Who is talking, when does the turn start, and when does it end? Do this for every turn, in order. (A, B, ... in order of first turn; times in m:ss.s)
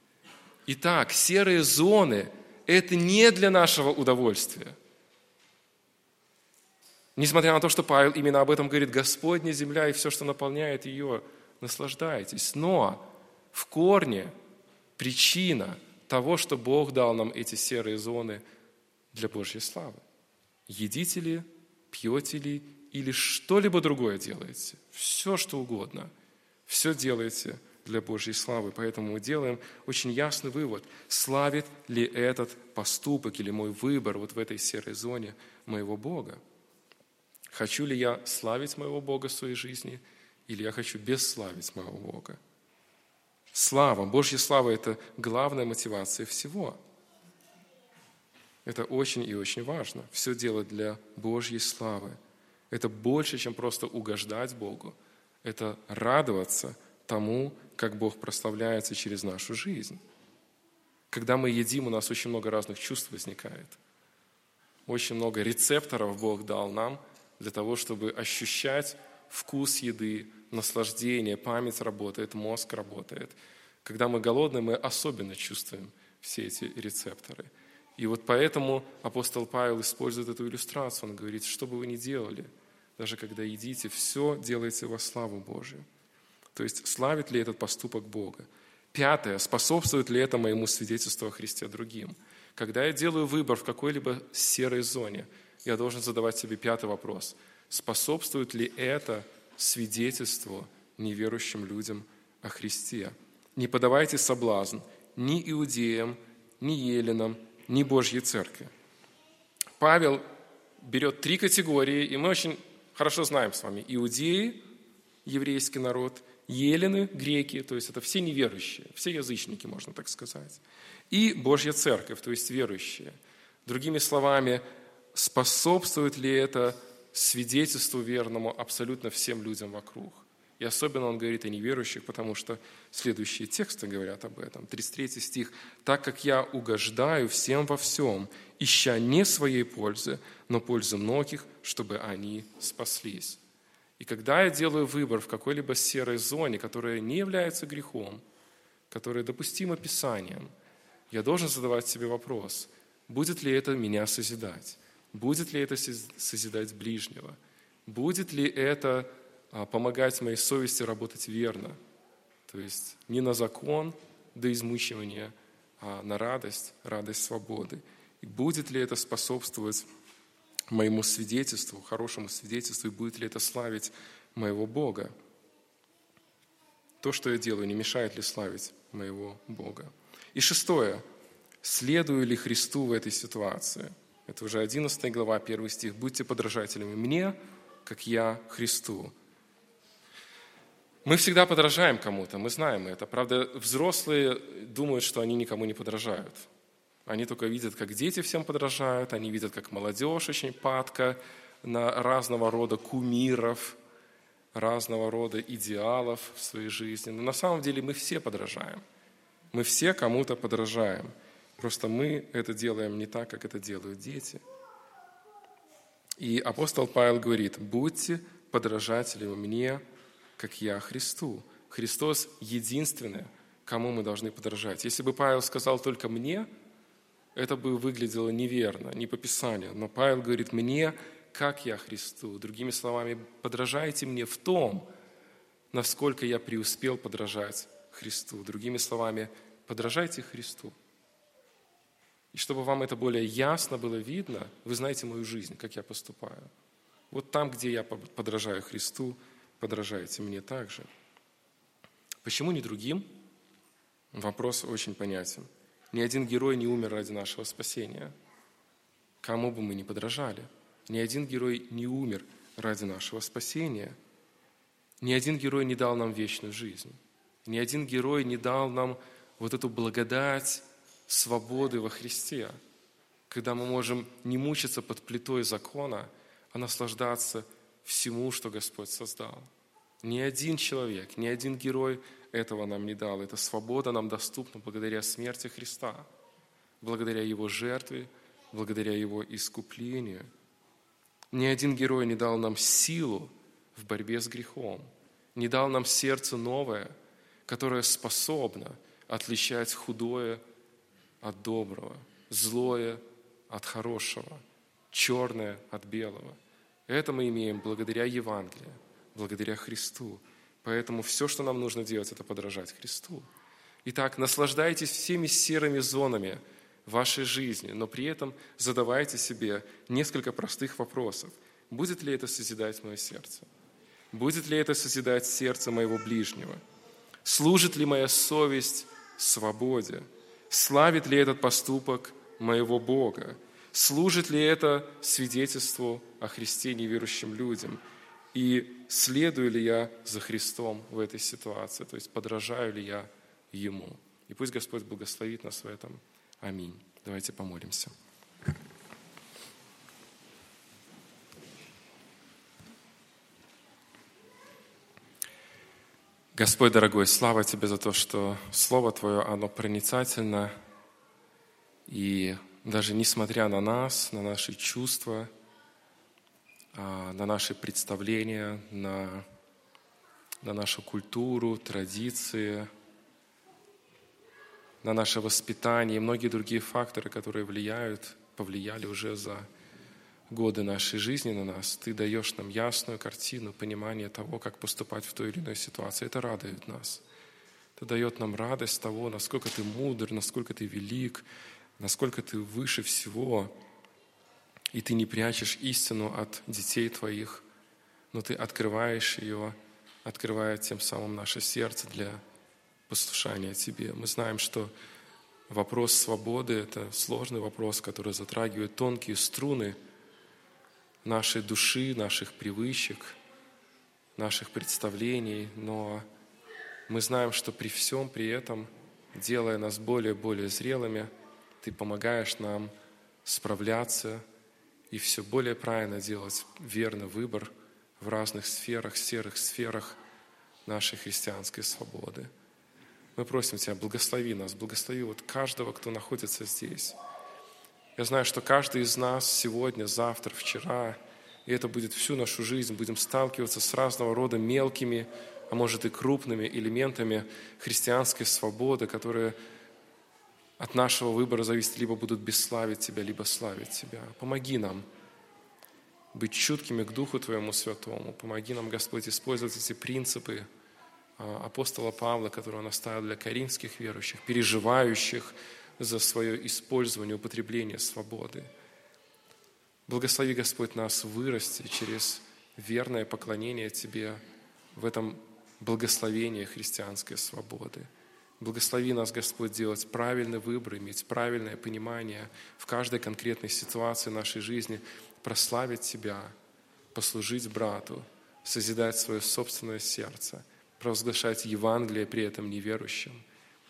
0:00.7-0:04.7 A
0:07.2-0:14.3 A
0:15.0-0:18.4 A
0:19.1-0:20.0 A
0:20.7-0:26.1 A
0:26.7-0:36.4 A
0:37.5-0:42.4 A
0:43.5-0:46.8 A
0:48.6-0:52.2 A
0:52.7-1:00.0 A
1:01.1-1:03.8 A
1:04.9-1:25.8 A
1:26.5-1:48.7 A
1:49.8-1:50.2 A
1:50.8-1:54.6 A
1:55.2-2:03.1 A
2:03.6-2:04.6 A
2:05.1-2:23.4 A
2:24.0-2:28.2 A
2:28.9-2:30.5 A
2:31.1-2:41.8 A
2:42.5-2:49.9 A
2:50.7-2:55.1 A
2:57.0-3:01.0 A
3:01.6-3:09.1 A
3:11.0-3:16.5 A
3:17.0-3:23.8 A
3:24.5-3:28.8 A
3:29.5-3:34.4 A
3:36.2-3:39.8 A
3:40.4-3:46.5 A
3:47.3-3:54.9 A
3:55.7-4:00.7 A
4:02.3-4:06.5 A
4:07.1-4:10.9 A
4:12.2-4:13.1 A
4:14.1-4:18.1 A
4:19.2-4:23.9 A
4:25.0-4:32.6 A
4:33.3-4:39.5 A
4:40.0-4:46.1 A
4:46.8-4:50.3 A
4:51.3-4:56.9 A
4:57.5-5:00.4 A
5:01.2-5:13.3 A
5:13.8-5:23.5 A
5:24.1-5:26.6 A
5:27.2-5:37.8 A
5:38.3-5:47.9 A
5:56.3-6:00.5 A
6:01.9-6:05.3 A
6:06.7-6:09.2 A
6:10.4-6:12.7 A
6:14.8-6:19.4 A
6:20.3-6:27.0 A
6:27.8-6:31.2 A
6:31.8-6:33.5 A
6:34.7-6:37.4 A
6:38.1-6:42.2 A
6:42.9-6:44.7 A
6:45.5-6:49.8 A
6:51.0-6:53.2 A
6:54.2-6:56.0 A
6:56.9-7:01.1 A
7:01.6-7:02.7 A
7:03.2-7:04.2 A
7:04.9-7:10.0 A
7:10.6-7:12.3 A
7:13.2-7:17.0 A
7:18.0-7:29.4 A
7:30.6-7:34.8 A
7:36.1-7:40.4 A
7:41.2-7:48.5 A
7:49.9-7:54.2 A
7:54.7-7:57.9 A
7:58.4-8:06.3 A
8:06.9-8:13.2 A